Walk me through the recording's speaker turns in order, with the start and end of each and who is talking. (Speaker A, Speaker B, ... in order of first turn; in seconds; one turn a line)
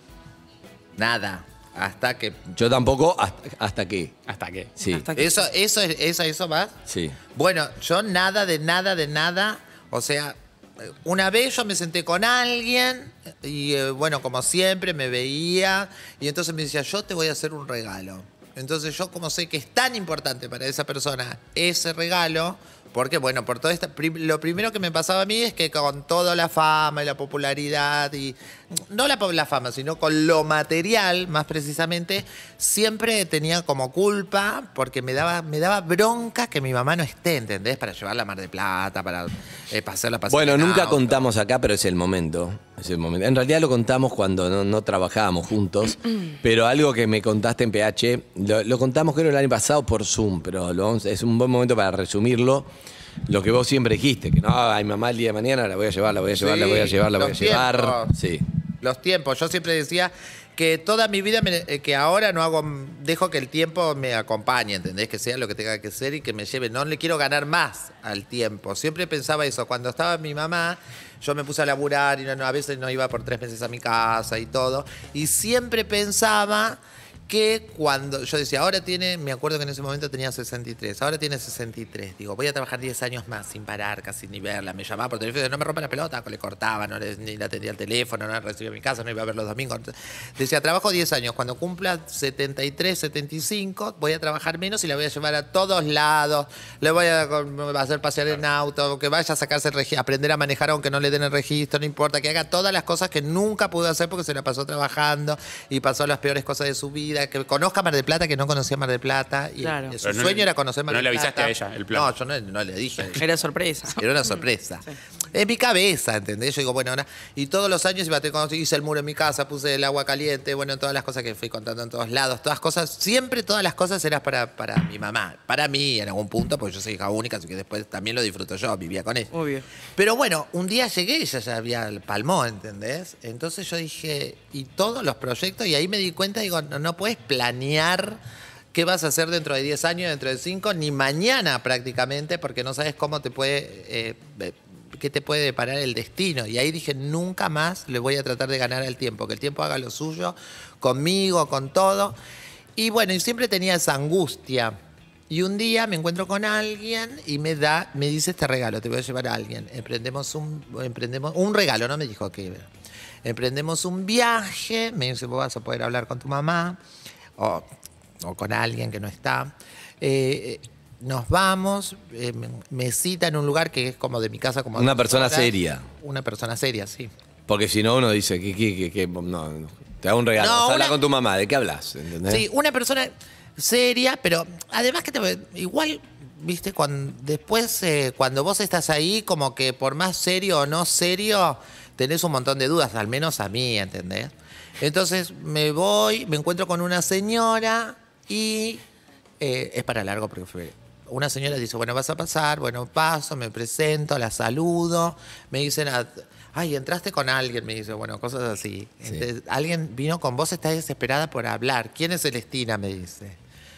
Speaker A: 1.0-2.4
Speaker B: 2.5-4.1
Speaker C: 4.3-4.7
Speaker B: 4.8-5.1
Speaker D: 4.9-5.4
Speaker A: 5.2-6.8
Speaker B: 6.9-7.2
Speaker A: 7.3-41.3
Speaker B: 40.3-52.7
Speaker B: 53.3-58.5
Speaker A: 56.3-58.1
Speaker A: 58.8-113.3
Speaker D: 109.6-110.0
Speaker C: 110.0-112.1
Speaker D: 113.2-114.0
Speaker A: 114.0-129.3
Speaker D: 129.3-129.7
Speaker A: 130.0-138.2
Speaker A: 138.7-152.2
Speaker A: 152.8-154.8
Speaker A: 155.3-162.7
Speaker A: 163.2-166.8
Speaker A: 167.4-167.7
Speaker A: 168.2-177.1
Speaker B: 174.7-175.8
Speaker B: 177.5-182.4
Speaker A: 180.4-181.0
Speaker A: 182.3-198.8
Speaker A: 199.4-213.4